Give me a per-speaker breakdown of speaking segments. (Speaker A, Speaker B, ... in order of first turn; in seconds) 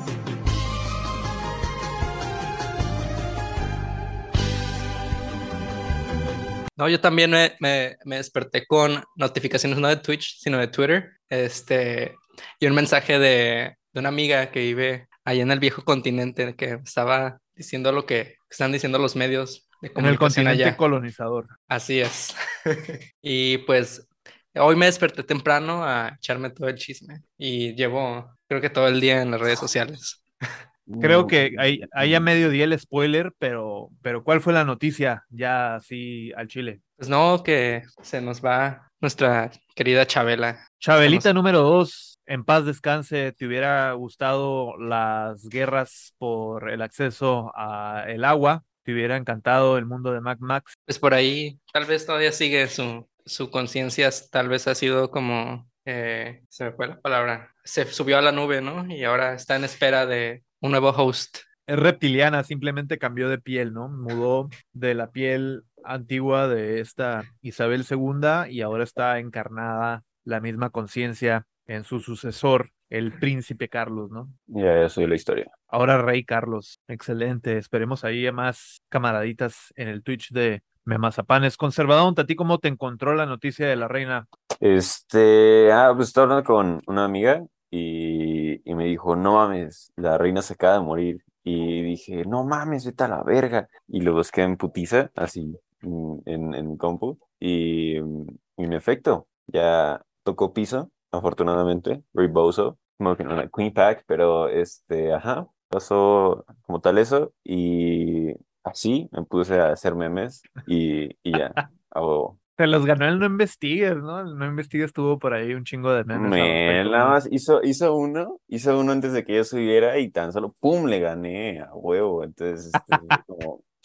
Speaker A: 6.8-20.8, 21.7-30.2, 37.0-41.3, 50.9-61.4
Speaker B: 20.0-21.5, 31.0-36.8, 40.8-50.7, 61.7-74.3, 75.7-84.3, 112.6-117.2, 122.8-123.2
Speaker C: 30.9-32.3, 74.5-75.5, 84.6-112.4, 116.1-123.6